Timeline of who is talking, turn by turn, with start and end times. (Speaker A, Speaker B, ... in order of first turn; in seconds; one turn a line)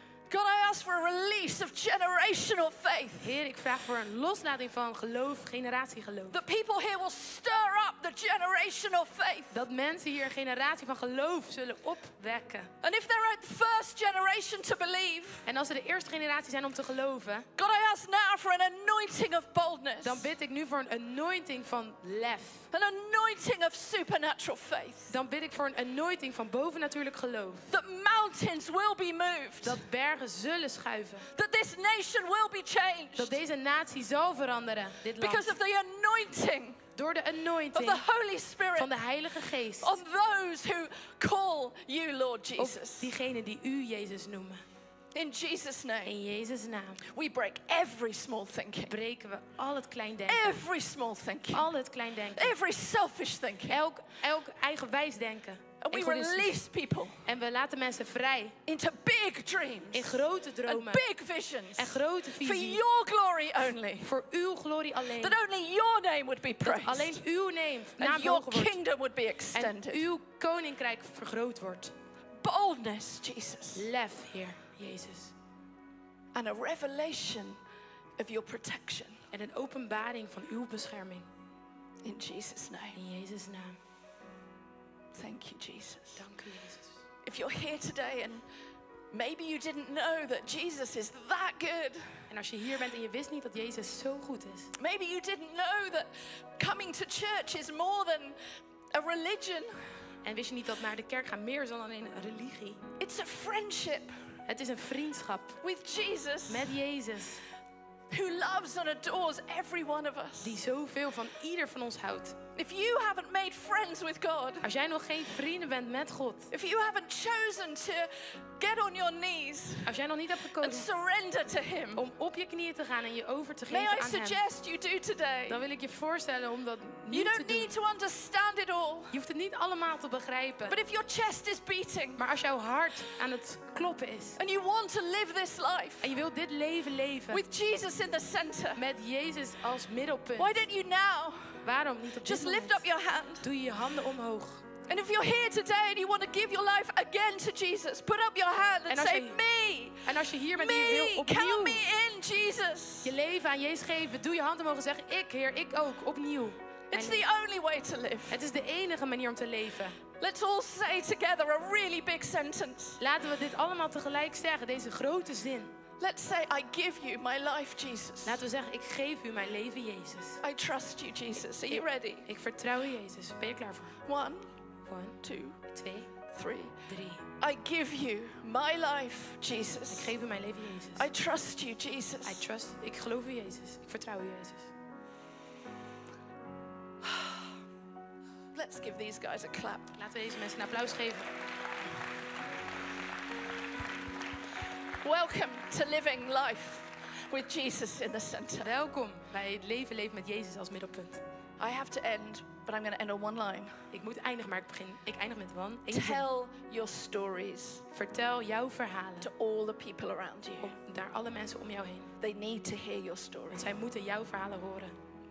Speaker A: 0.3-3.4
Speaker B: 3.2-6.4
Speaker A: 6.3-9.6
Speaker B: 9.5-12.7
Speaker A: 12.8-15.4
Speaker B: 15.4-17.5
Speaker A: 17.6-20.3
Speaker B: 20.0-22.7
Speaker A: 22.7-25.2
Speaker B: 25.1-27.7
Speaker A: 27.7-29.8
Speaker B: 29.6-31.2
Speaker A: 31.3-33.4
Speaker B: 33.1-35.5
Speaker A: 35.2-36.8
Speaker B: 36.9-38.0
Speaker A: 37.7-39.0
Speaker B: 38.8-40.0
Speaker A: 39.8-43.1
Speaker B: 42.6-44.6
Speaker A: 45.1-46.2
Speaker B: 46.0-47.0
Speaker A: 47.0-49.0
Speaker B: 48.9-50.6
Speaker A: 50.3-51.7
Speaker B: 51.5-52.5
Speaker A: 52.4-53.8
Speaker B: 53.7-56.6
Speaker A: 55.8-57.2
Speaker B: 57.2-58.6
Speaker A: 58.6-64.1
Speaker B: 59.9-61.0
Speaker B: 61.8-62.8
Speaker B: 64.0-65.4
Speaker A: 65.2-67.2
Speaker B: 66.6-68.8
Speaker A: 68.0-70.1
Speaker B: 69.5-71.9
Speaker A: 72.4-73.9
Speaker B: 73.7-75.3
Speaker A: 76.3-77.6
Speaker A: 78.2-79.2
Speaker B: 79.3-81.3
Speaker A: 82.0-83.0
Speaker B: 82.9-83.8
Speaker A: 85.1-86.2
Speaker B: 86.2-87.0
Speaker A: 87.2-88.4
Speaker A: 89.1-92.2
Speaker B: 92.3-94.7
Speaker A: 94.8-98.4
Speaker A: 98.9-99.8
Speaker B: 100.2-102.8
Speaker A: 103.0-104.1
Speaker B: 104.5-105.6
Speaker A: 105.6-106.7
Speaker B: 106.5-107.4
Speaker A: 108.1-110.5
Speaker B: 110.4-112.4
Speaker A: 112.5-114.7
Speaker B: 114.6-116.5
Speaker A: 116.5-119.9
Speaker B: 119.8-120.9
Speaker A: 120.6-122.0
Speaker B: 122.0-124.4
Speaker A: 123.7-125.6
Speaker B: 125.5-127.7
Speaker A: 127.1-129.1
Speaker B: 129.1-130.8
Speaker A: 130.7-132.2
Speaker B: 132.2-134.4
Speaker A: 134.4-136.1
Speaker B: 136.0-137.4
Speaker A: 137.3-138.8
Speaker B: 138.8-140.6
Speaker A: 140.4-141.6
Speaker B: 141.6-142.8
Speaker A: 142.2-143.5
Speaker B: 143.4-144.6
Speaker A: 144.9-153.1
Speaker B: 148.9-149.4
Speaker B: 150.1-151.8
Speaker B: 153.0-157.2
Speaker A: 156.9-158.4
Speaker B: 158.3-160.0
Speaker A: 160.2-163.0
Speaker B: 163.0-165.7
Speaker A: 166.0-168.4
Speaker B: 168.2-170.4
Speaker A: 170.4-172.3
Speaker B: 171.7-173.9
Speaker A: 174.1-174.4
Speaker B: 174.9-175.2
Speaker A: 175.2-175.6
Speaker B: 175.7-176.1
Speaker A: 176.3-176.8
Speaker B: 176.9-177.2
Speaker A: 177.4-180.1
Speaker B: 179.9-181.1
Speaker A: 180.9-182.4
Speaker B: 182.2-184.7
Speaker A: 187.0-187.4
Speaker A: 188.5-189.9
Speaker B: 189.9-191.3
Speaker A: 195.0-198.7
Speaker B: 198.6-201.2
Speaker A: 201.6-203.8
Speaker B: 203.9-206.2
Speaker A: 205.9-207.8
Speaker B: 207.9-209.3
Speaker A: 209.2-210.8
Speaker B: 210.6-212.1
Speaker A: 212.2-213.7
Speaker B: 213.5-214.9